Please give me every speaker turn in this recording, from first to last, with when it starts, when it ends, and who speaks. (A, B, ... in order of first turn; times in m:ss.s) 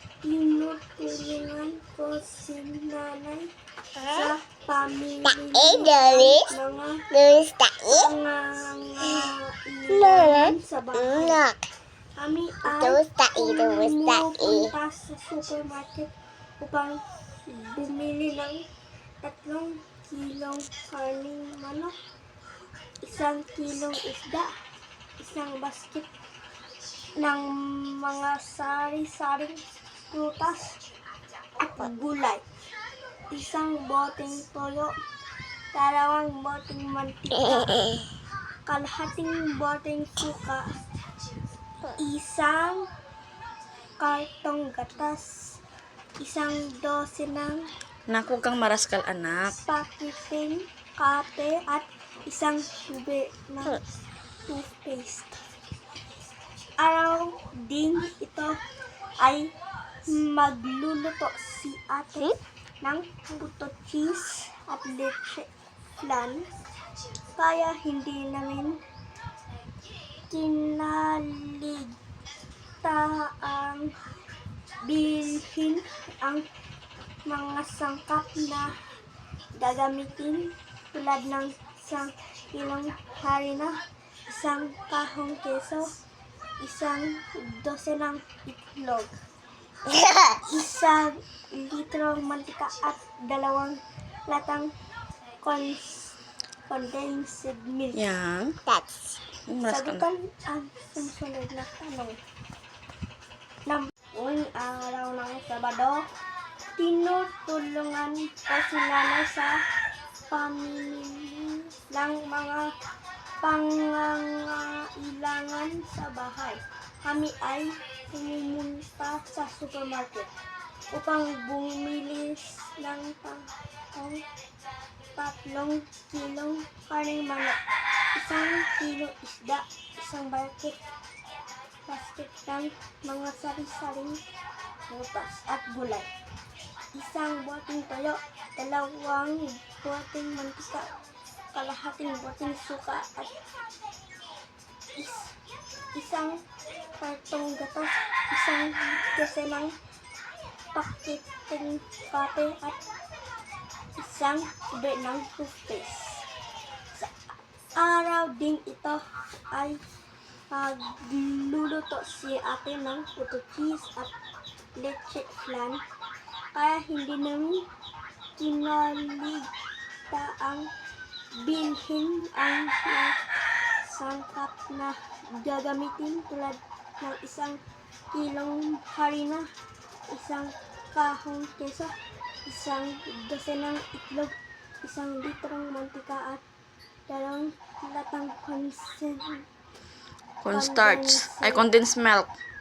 0:00.2-0:07.1 A
0:05.4-0:06.5 B
0:07.1-0:08.1 B
0:07.8-0:11.4 A
0:09.9-0:11.6 B
0:12.2-0:18.6 A
0:12.6-0:14.7 B
0:19.2-0:22.0 A
0:23.0-0:24.5 A
0:25.2-0:26.1 A
0:27.2-0:30.8 A
0:31.6-0:32.4 A
0:33.3-0:34.9 A
0:35.7-0:38.0 A
0:38.6-0:40.7 A
0:41.9-0:42.9 A
0:44.0-0:45.6 A
0:46.2-0:47.7 A
0:48.1-0:49.6 C
0:49.6-0:53.8 A
0:54.4-0:55.4 A
0:56.8-0:58.6 A
0:59.2-0:59.5 A
1:00.0-1:06.5 A
1:07.3-1:08.8 A
1:10.3-1:12.0 A
1:12.8-1:14.0 A
1:14.8-1:16.5 A
1:17.3-1:18.7 A
1:19.6-1:26.0 A
1:26.6-1:29.2 A
1:29.8-1:30.4 B
1:30.4-1:34.7 A
1:35.4-1:36.1 A
1:36.7-1:38.0 A
1:37.9-1:38.6 C
1:38.6-1:39.2 B
1:39.5-1:40.0 C
1:39.6-1:42.2 A
1:43.6-1:46.1 A
1:46.8-1:49.6 A
1:50.3-1:52.7 A
1:53.4-2:00.3 A
2:00.9-2:04.2 A
2:05.2-2:07.6 A
2:08.1-2:10.8 A
2:11.9-2:14.2 A
2:14.9-2:16.1 A
2:16.9-2:20.9 A
2:21.5-2:23.3 A
2:25.0-2:25.3 A
2:25.9-2:26.4 A
2:27.0-2:29.8 A
2:30.7-2:32.8 A
2:33.9-2:36.2 A
2:36.9-2:39.8 A
2:40.5-2:44.1 A
2:44.7-2:45.8 A
2:46.5-2:47.6 A
2:48.4-2:49.5 A
2:50.1-2:50.7 A
2:51.4-2:53.2 A
2:53.8-2:57.6 A
2:58.1-2:59.5 A
3:00.1-3:06.4 A
3:07.1-3:09.4 A
3:10.4-3:12.3 C
3:10.5-3:11.7 A